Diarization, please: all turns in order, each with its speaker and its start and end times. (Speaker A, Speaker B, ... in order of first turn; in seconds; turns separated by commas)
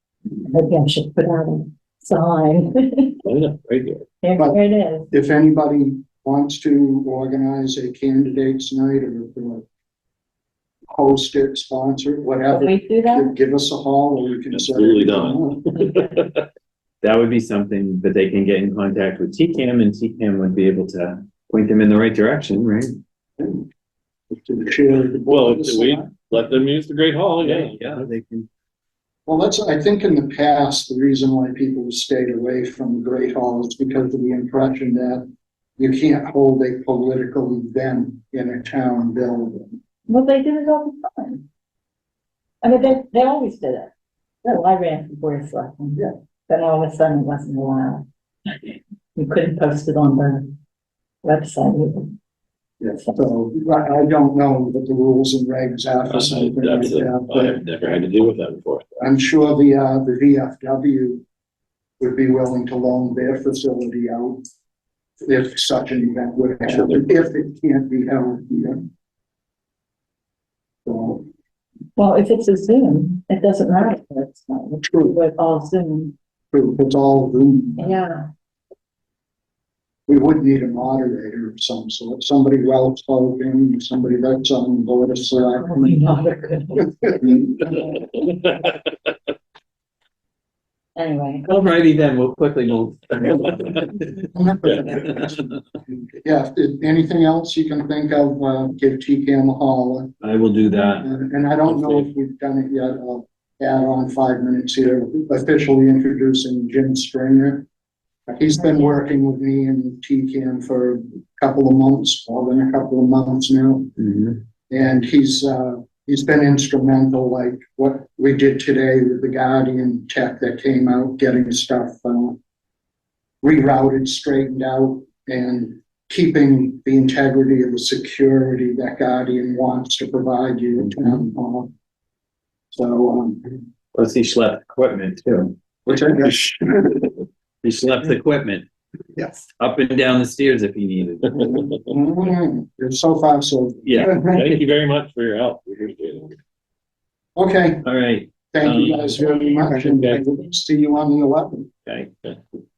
Speaker A: 0.5-3.2, Speaker B: 3.2-4.0, Speaker A: 4.2-5.1, Speaker C: 5.1-9.6, Speaker C: 10.9-15.7, Speaker A: 12.5-13.3, Speaker B: 14.5-16.4, Speaker D: 17.0-23.0, Speaker C: 23.4-23.7, Speaker C: 24.3-26.1, Speaker B: 25.3-28.1, Speaker D: 27.4-28.5, Speaker C: 29.3-35.2, Speaker C: 35.8-39.8, Speaker A: 40.1-41.4, Speaker A: 42.6-43.9, Speaker A: 44.4-50.5, Speaker A: 51.2-52.1, Speaker C: 52.8-57.6, Speaker B: 56.1-58.9, Speaker C: 59.0-61.2, Speaker C: 62.0-64.4, Speaker C: 65.2-68.8, Speaker B: 66.7-67.1, Speaker C: 70.8-71.2, Speaker A: 72.0-76.1, Speaker C: 74.8-75.1, Speaker C: 76.5-77.9, Speaker A: 77.8-78.3, Speaker C: 80.1-85.7, Speaker A: 85.5-88.0, Speaker C: 87.2-87.6, Speaker A: 91.0-91.5, Speaker D: 91.5-94.1, Speaker C: 94.2-100.1, Speaker D: 100.2-101.1, Speaker C: 101.0-107.7, Speaker C: 108.3-113.9, Speaker D: 114.0-114.3, Speaker C: 114.7-122.4, Speaker C: 123.4-131.7, Speaker C: 132.7-133.6, Speaker D: 133.9-135.6, Speaker C: 135.8-137.1, Speaker D: 137.6-138.7, Speaker D: 139.4-141.5, Speaker C: 141.3-144.4, Speaker D: 143.8-144.6, Speaker B: 144.3-146.3, Speaker C: 147.3-147.8, Speaker D: 147.8-149.2, Speaker C: 148.5-151.7, Speaker B: 149.7-150.2, Speaker D: 151.8-152.1